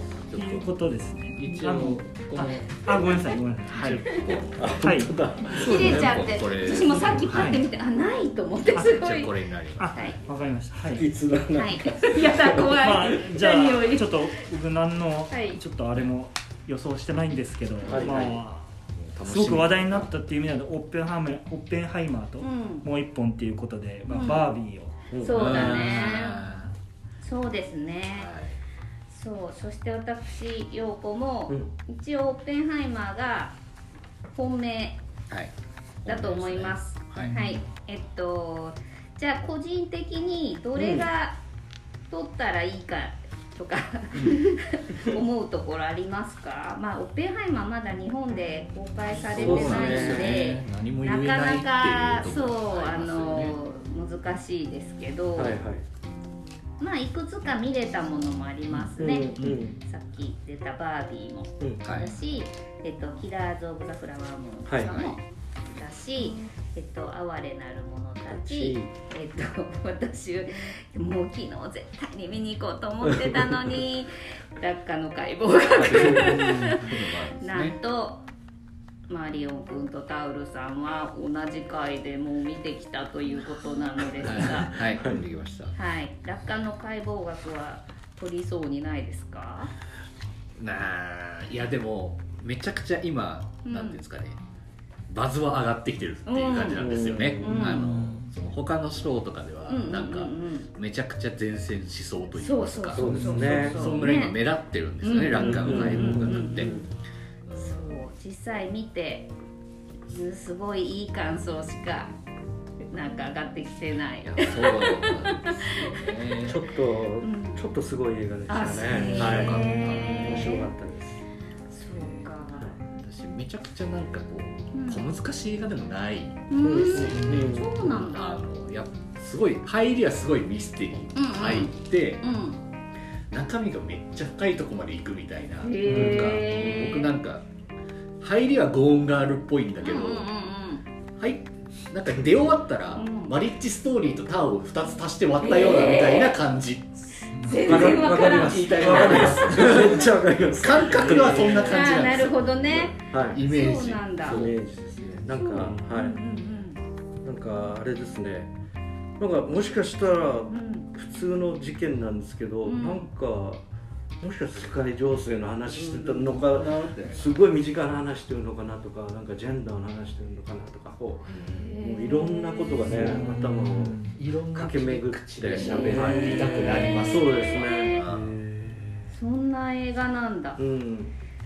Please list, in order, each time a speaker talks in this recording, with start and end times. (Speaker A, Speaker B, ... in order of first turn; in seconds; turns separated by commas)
Speaker A: 0.2-0.7, Speaker B: 0.3-5.2, Speaker A: 1.3-3.1, Speaker A: 3.8-4.7, Speaker C: 4.6-6.3, Speaker D: 5.5-9.4, Speaker A: 5.5-7.7, Speaker B: 6.9-7.7, Speaker A: 8.7-10.3, Speaker B: 9.8-11.1, Speaker D: 9.9-10.2, Speaker C: 10.9-12.6, Speaker D: 11.6-14.3, Speaker B: 12.6-25.0, Speaker D: 15.3-15.6, Speaker A: 17.8-18.3, Speaker C: 17.9-18.4, Speaker A: 19.0-20.1, Speaker D: 22.4-22.9, Speaker D: 24.1-24.5, Speaker C: 25.1-25.6, Speaker D: 25.2-26.4, Speaker A: 25.3-26.7, Speaker D: 27.2-28.3, Speaker A: 28.1-28.6, Speaker D: 29.1-33.5, Speaker D: 34.3-35.0, Speaker A: 36.0-37.4, Speaker D: 36.1-41.4, Speaker C: 40.8-41.1, Speaker D: 42.1-55.6, Speaker A: 44.1-44.5, Speaker A: 49.3-53.6, Speaker C: 49.3-50.4, Speaker C: 55.4-55.8, Speaker D: 56.8-78.3, Speaker C: 59.0-59.8, Speaker C: 61.6-61.9, Speaker A: 61.9-62.2, Speaker C: 64.7-65.1, Speaker C: 68.3-68.9, Speaker C: 73.1-73.6, Speaker C: 75.8-76.8, Speaker A: 75.8-77.8, Speaker D: 79.1-85.1, Speaker A: 84.2-85.8, Speaker D: 85.8-89.7, Speaker A: 90.6-94.4, Speaker D: 93.7-94.0, Speaker A: 95.1-106.8, Speaker D: 96.3-97.9, Speaker C: 96.8-97.8, Speaker D: 99.7-100.7, Speaker D: 102.3-104.4, Speaker C: 102.9-103.8, Speaker B: 103.1-103.7, Speaker D: 105.0-106.8, Speaker C: 105.3-106.9, Speaker A: 107.5-108.0, Speaker D: 107.5-109.3, Speaker D: 110.1-112.1, Speaker D: 112.8-116.0, Speaker A: 114.2-116.6, Speaker C: 116.4-121.2, Speaker D: 117.2-117.6, Speaker D: 118.5-120.7, Speaker A: 118.8-120.6, Speaker D: 121.7-122.8, Speaker A: 122.8-132.2, Speaker D: 124.7-125.1, Speaker D: 126.5-128.3, Speaker C: 126.6-127.9, Speaker D: 131.2-132.6, Speaker A: 133.3-137.5, Speaker D: 135.6-137.1, Speaker C: 135.9-136.2, Speaker A: 138.2-140.3, Speaker D: 139.8-140.8, Speaker A: 141.2-146.9, Speaker D: 143.0-143.4, Speaker D: 145.4-146.4, Speaker D: 147.2-149.4, Speaker A: 147.5-155.2, Speaker C: 147.7-152.0, Speaker D: 151.7-154.5, Speaker C: 153.1-153.4, Speaker C: 154.2-156.2, Speaker D: 155.3-156.8, Speaker B: 155.6-155.9, Speaker C: 157.2-158.5, Speaker C: 159.2-163.6, Speaker D: 160.5-160.9, Speaker D: 162.6-163.1, Speaker C: 164.2-179.1, Speaker A: 165.8-167.2, Speaker A: 171.3-171.7, Speaker D: 171.6-173.1, Speaker B: 172.9-174.2, Speaker A: 174.1-178.4, Speaker D: 175.5-178.1, Speaker D: 179.1-180.6, Speaker C: 180.6-181.2